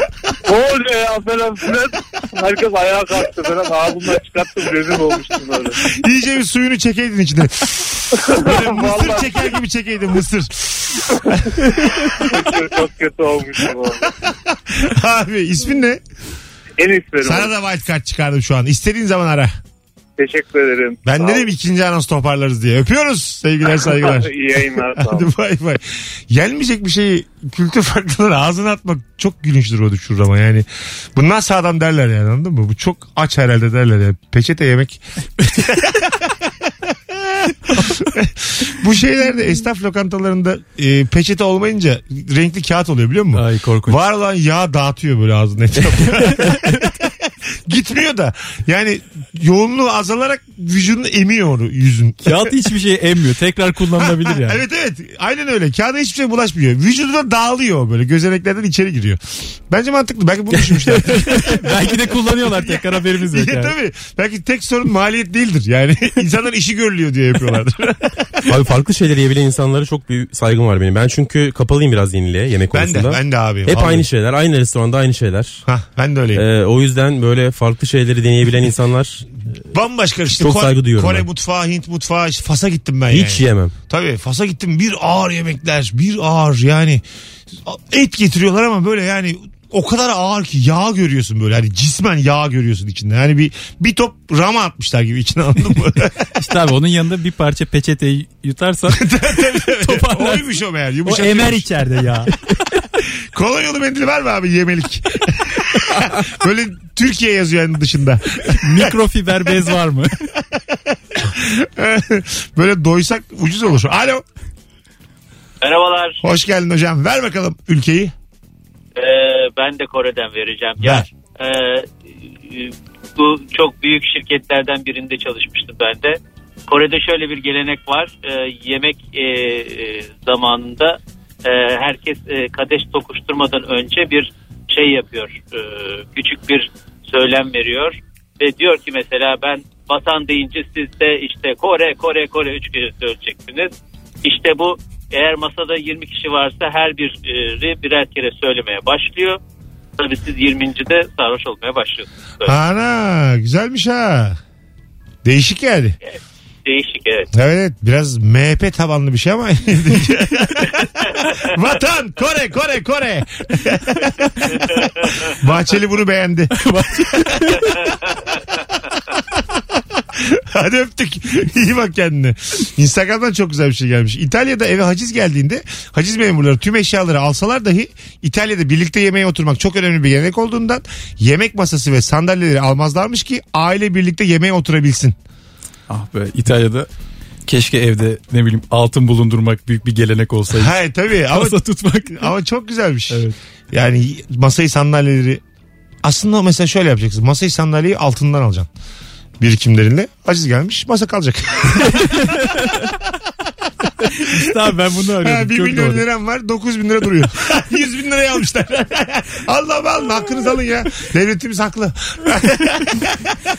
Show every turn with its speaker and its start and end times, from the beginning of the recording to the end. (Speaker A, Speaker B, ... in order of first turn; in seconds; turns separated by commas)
Speaker A: 0.4-5.8, Speaker B: 5.8-12.4, Speaker A: 8.2-9.4, Speaker A: 12.2-14.1, Speaker B: 14.0-16.0, Speaker A: 16.8-17.5, Speaker B: 17.2-19.5, Speaker A: 20.2-21.5, Speaker B: 21.0-36.5, Speaker A: 23.8-25.3, Speaker B: 37.1-52.5, Speaker C: 43.3-44.0, Speaker C: 46.1-46.8, Speaker C: 52.2-54.6, Speaker B: 54.0-68.2, Speaker C: 60.9-63.7, Speaker D: 68.5-75.6, Speaker B: 72.7-74.1, Speaker B: 75.7-76.4, Speaker D: 76.3-79.3, Speaker B: 79.7-87.0, Speaker D: 80.4-81.2, Speaker D: 83.1-83.7, Speaker B: 87.6-96.3, Speaker C: 96.3-100.5, Speaker B: 98.9-101.8, Speaker C: 101.0-102.3, Speaker B: 103.3-108.9, Speaker C: 108.6-110.1, Speaker B: 111.1-114.2, Speaker E: 115.6-116.2, Speaker B: 116.2-118.1, Speaker E: 119.0-121.9, Speaker B: 120.8-121.1, Speaker E: 122.4-143.7, Speaker E: 144.2-149.4, Speaker E: 150.0-152.6, Speaker B: 152.4-154.4, Speaker B: 155.2-156.0, Speaker E: 156.0-157.3, Speaker B: 157.3-164.6, Speaker B: 165.3-166.6, Speaker C: 166.6-167.8, Speaker B: 167.1-167.6, Speaker B: 170.1-185.2, Speaker C: 185.9-186.9, Speaker C: 187.4-190.7, Speaker B: 190.5-195.4, Speaker C: 191.3-192.3, Speaker C: 193.1-193.3, Speaker B: 196.0-198.7, Speaker B: 199.4-202.3, Speaker C: 201.9-202.7, Speaker C: 204.0-206.0, Speaker B: 205.2-213.3